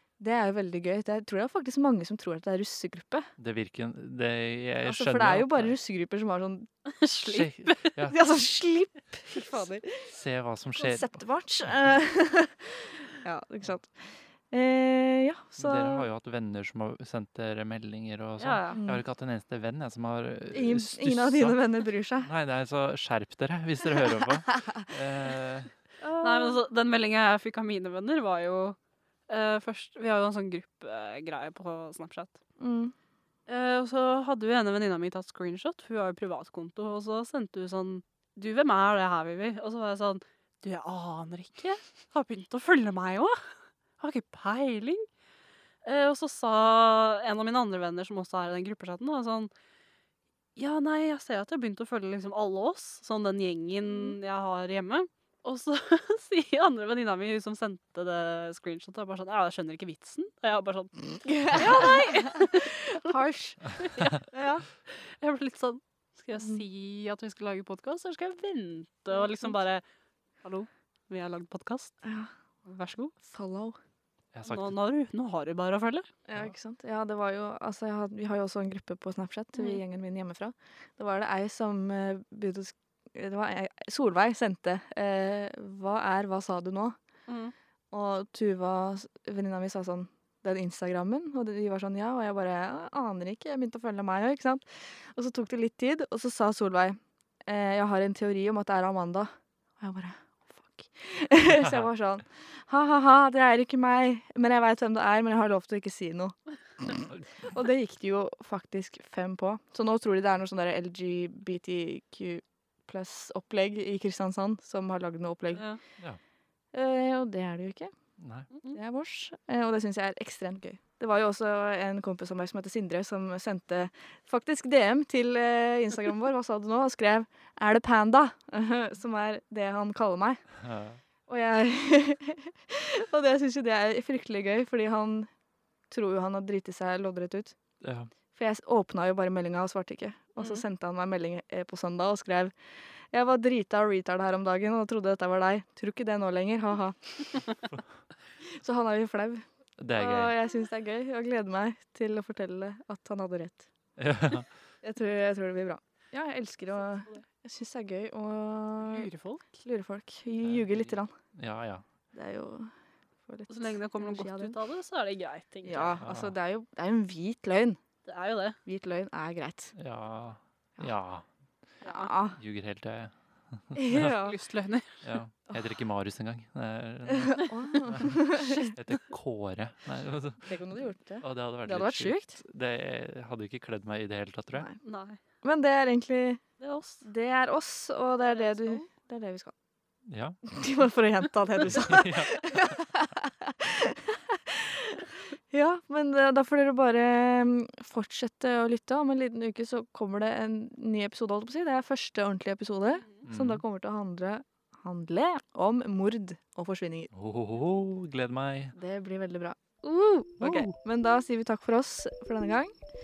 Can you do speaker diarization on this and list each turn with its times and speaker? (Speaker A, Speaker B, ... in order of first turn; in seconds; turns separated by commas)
Speaker A: 0.2-3.3, Speaker B: 3.4-5.8, Speaker A: 4.8-6.7, Speaker C: 6.8-7.9, Speaker B: 7.2-8.2, Speaker A: 8.1-10.1, Speaker B: 10.1-11.9, Speaker A: 10.8-16.1, Speaker B: 15.6-21.6, Speaker C: 18.4-18.8, Speaker A: 18.7-19.0, Speaker A: 20.5-22.3, Speaker B: 22.2-25.7, Speaker A: 24.5-24.8, Speaker A: 26.0-26.6, Speaker C: 26.2-28.8, Speaker C: 29.3-32.4, Speaker A: 32.6-32.9, Speaker C: 33.5-45.1, Speaker C: 45.8-49.5, Speaker C: 50.5-63.1, Speaker A: 53.9-54.1, Speaker A: 61.2-64.6, Speaker C: 63.8-64.3, Speaker C: 64.9-69.8, Speaker A: 69.1-69.5, Speaker C: 70.4-72.0, Speaker A: 72.0-72.3, Speaker C: 72.7-73.1, Speaker A: 73.2-73.8, Speaker B: 74.3-74.8, Speaker C: 74.4-76.1, Speaker A: 76.3-87.0, Speaker C: 79.5-79.8, Speaker C: 87.3-87.5, Speaker A: 87.9-115.6, Speaker B: 101.5-101.9, Speaker C: 115.5-115.8, Speaker A: 116.7-117.9, Speaker B: 118.2-118.5, Speaker A: 118.7-130.4, Speaker B: 130.6-131.0, Speaker A: 131.3-135.3, Speaker A: 135.9-137.5, Speaker B: 137.8-138.1, Speaker A: 138.3-142.5, Speaker C: 140.4-140.6, Speaker A: 143.1-147.4, Speaker A: 148.4-153.7, Speaker B: 149.8-150.3, Speaker B: 154.0-154.5, Speaker A: 154.8-159.1, Speaker C: 158.8-159.4, Speaker A: 159.6-161.1, Speaker B: 160.4-161.8, Speaker A: 162.1-162.7, Speaker A: 163.3-164.6, Speaker C: 163.5-166.0, Speaker A: 165.6-167.8, Speaker B: 166.0-166.3, Speaker C: 168.0-168.6, Speaker A: 168.7-169.7, Speaker B: 169.8-171.2, Speaker C: 171.8-172.1, Speaker A: 171.8-172.4, Speaker B: 172.3-174.2, Speaker A: 173.7-174.4, Speaker C: 173.9-175.0, Speaker B: 175.0-184.7, Speaker A: 177.1-178.8, Speaker A: 180.4-182.4, Speaker A: 184.5-184.8, Speaker C: 184.8-185.2, Speaker A: 185.4-186.4, Speaker C: 186.6-187.1, Speaker A: 187.0-189.5, Speaker C: 188.2-188.9, Speaker B: 190.1-190.4, Speaker A: 190.4-207.1, Speaker B: 191.6-192.4, Speaker B: 203.2-203.6, Speaker B: 207.1-208.8, Speaker A: 208.7-212.7, Speaker B: 210.4-210.7